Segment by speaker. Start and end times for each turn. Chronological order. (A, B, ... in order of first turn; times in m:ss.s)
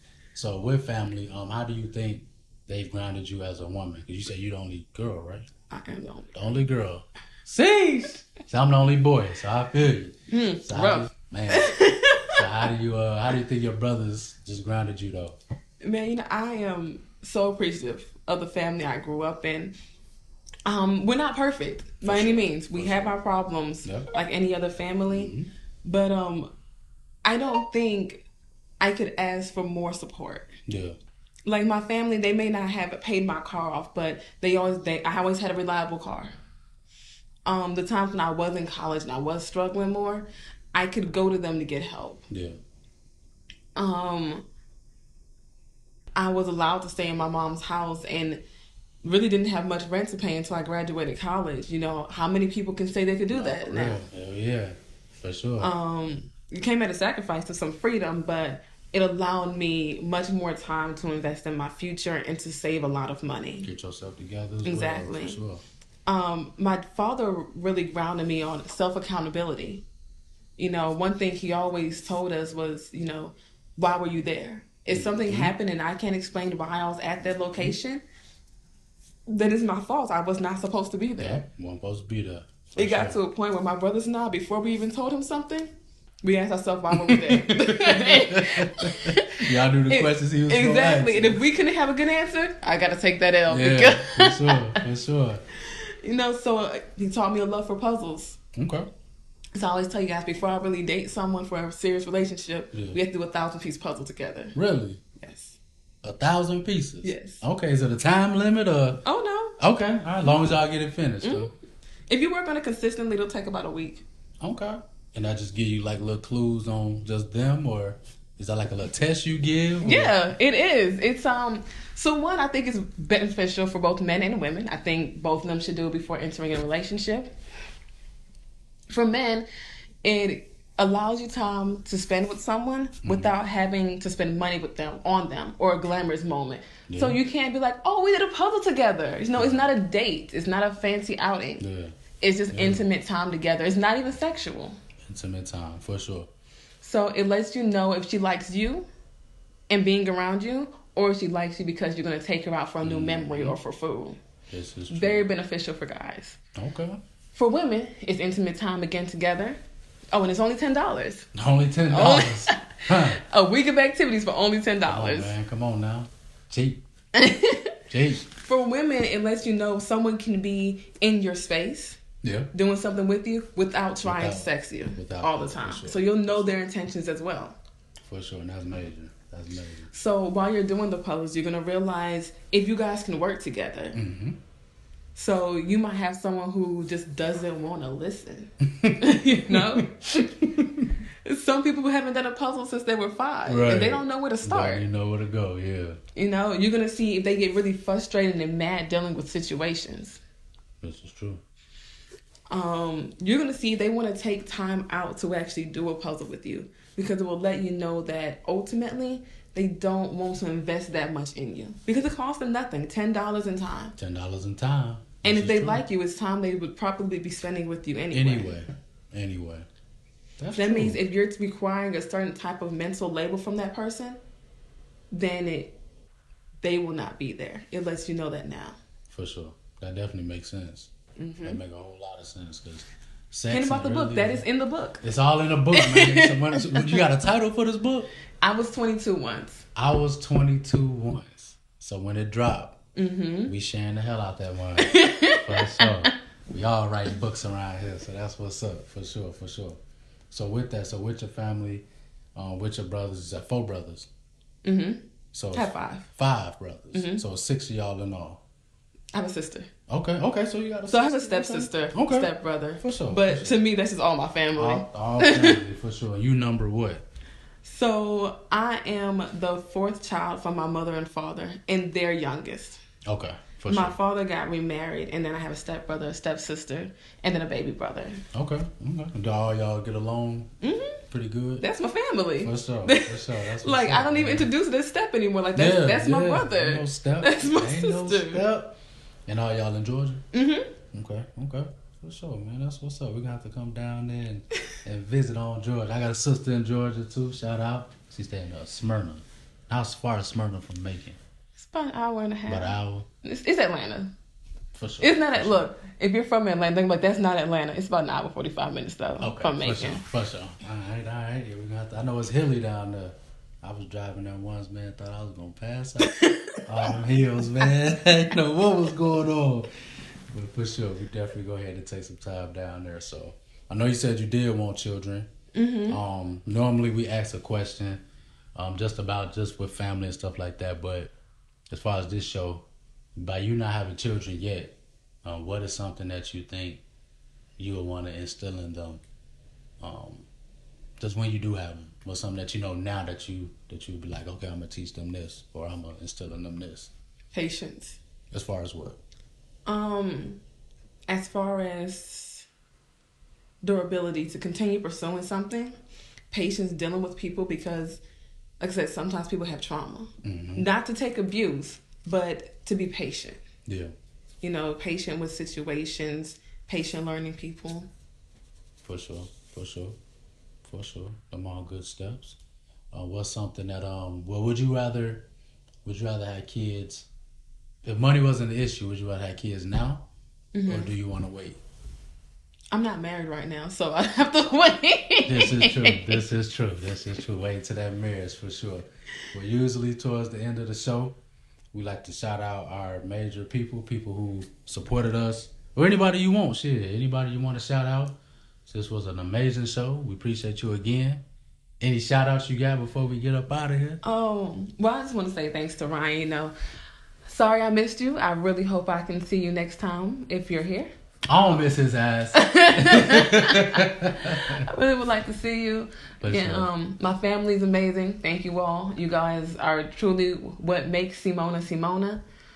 0:00.3-0:05.5 A
0:05.7-0:06.3 B
0:06.3-0:15.4 A
0:10.3-0:12.4 B
0:15.8-0:19.7 B
0:20.6-0:26.5 B
0:22.0-0:23.2 A
0:23.8-0:24.1 A
0:25.1-0:25.5 A
0:27.2-0:28.2 B
0:28.8-0:30.5 B
0:30.6-0:31.0 A
0:31.4-0:36.3 B
0:37.4-0:42.2 B
0:42.3-0:42.6 A
0:43.8-0:44.4 B
0:46.1-0:48.4 B
0:49.0-0:54.0 B
0:53.3-0:55.7 A
0:55.6-1:03.7 B
1:03.6-1:05.6 A
1:04.6-1:05.4 B
1:06.1-1:09.8 B
1:10.6-1:18.0 B
1:14.9-1:15.5 A
1:19.3-1:21.4 B
1:21.2-1:23.2 A
1:22.8-1:25.7 B
1:26.2-1:34.8 B
1:26.9-1:31.4 A
1:33.5-1:35.4 A
1:35.7-1:38.4 B
1:38.5-1:38.9 A
1:39.5-1:44.6 B
1:42.7-1:43.0 A
1:44.5-1:45.0 A
1:45.2-1:45.6 B
1:46.0-1:49.0 A
1:47.0-1:47.4 B
1:49.0-1:49.6 B
1:49.6-1:51.5 A
1:51.2-1:51.5 B
1:52.1-1:54.0 B
1:54.4-2:00.2 A
1:59.8-2:07.3 B
2:08.9-2:09.5 B
2:10.0-2:21.6 B
2:13.0-2:13.3 A
2:16.9-2:17.2 A
2:19.4-2:19.7 A
2:21.6-2:21.9 A
2:22.2-2:24.8 B
2:22.5-2:22.9 A
2:25.0-2:26.3 A
2:26.8-2:28.9 B
2:29.7-2:34.2 B
2:32.8-2:33.6 A
2:34.5-2:35.3 A
2:34.9-2:36.4 B
2:36.5-2:37.0 A
2:37.3-2:39.6 B
2:40.1-2:41.3 B
2:41.3-2:43.2 A
2:41.9-2:45.3 B
2:44.8-2:46.8 A
2:47.1-2:47.7 B
2:47.9-2:48.2 A
2:48.4-2:52.0 B
2:52.2-2:52.5 A
2:52.5-2:57.6 B
2:54.0-2:56.5 A
2:58.0-2:59.9 A
2:59.9-3:04.0 B
3:03.9-3:04.4 A
3:05.1-3:10.3 B
3:08.8-3:10.8 A
3:11.2-3:14.8 B
3:13.4-3:16.0 A
3:16.1-3:20.2 B
3:20.8-3:21.4 A
3:22.5-3:34.0 B
3:34.0-3:35.8 A
3:35.2-3:38.5 B
3:38.1-3:39.7 A
3:40.4-3:41.0 A
3:40.5-3:44.2 B
3:45.1-3:45.7 B
3:46.6-3:48.8 B
3:49.1-3:50.9 A
3:51.2-3:51.6 B
3:51.4-3:54.5 A
3:53.5-3:55.0 B
3:55.0-3:58.1 A
3:55.7-3:57.0 B
3:58.4-3:59.6 B
3:59.7-4:02.8 A
4:03.0-4:03.5 B
4:03.4-4:09.8 A
4:04.8-4:06.1 B
4:10.3-4:14.1 A
4:14.6-4:16.1 B
4:15.3-4:18.4 A
4:16.9-4:17.2 B
4:19.1-4:19.7 B
4:19.9-4:23.6 A
4:20.9-4:25.6 B
4:24.5-4:27.0 A
4:27.6-4:32.8 B
4:33.0-4:34.0 A
4:33.7-4:38.2 B
4:38.3-4:40.5 A
4:40.6-4:41.0 B
4:41.1-4:41.6 A
4:41.6-4:48.4 B
4:42.4-4:44.5 A
4:45.6-4:48.8 A
4:49.3-4:50.2 A
4:50.3-4:50.7 B
4:50.9-5:01.2 A
5:01.6-5:04.1 B
5:02.5-5:03.1 A
5:04.7-5:05.7 A
5:05.0-5:10.0 B
5:09.2-5:19.7 A
5:16.1-5:16.9 B
5:20.3-5:25.3 A
5:25.5-5:26.0 B
5:25.9-5:28.0 A
5:28.5-5:31.1 A
5:31.7-5:36.8 A
5:37.6-5:39.0 A
5:39.8-5:40.3 A
5:41.0-5:46.9 A
5:47.3-5:48.0 B
5:48.3-5:49.0 A
5:49.6-5:50.4 B
5:51.1-5:52.5 B
5:53.6-5:55.8 B
5:56.3-5:58.0 B
5:58.6-6:03.4 B
6:00.2-6:00.6 A
6:03.6-6:03.9 A
6:04.4-6:07.9 B
6:08.8-6:10.0 A
6:10.6-6:12.4 A
6:12.9-6:15.3 A
6:15.8-6:17.1 A
6:17.8-6:20.1 A
6:20.5-6:20.9 B
6:20.7-6:21.6 A
6:22.7-6:26.2 B
6:25.2-6:31.2 A
6:31.7-6:41.2 A
6:41.8-6:44.0 A
6:44.0-6:46.5 B
6:47.2-6:50.9 B
6:51.3-6:54.6 A
6:52.3-7:02.2 B
6:56.2-6:56.7 A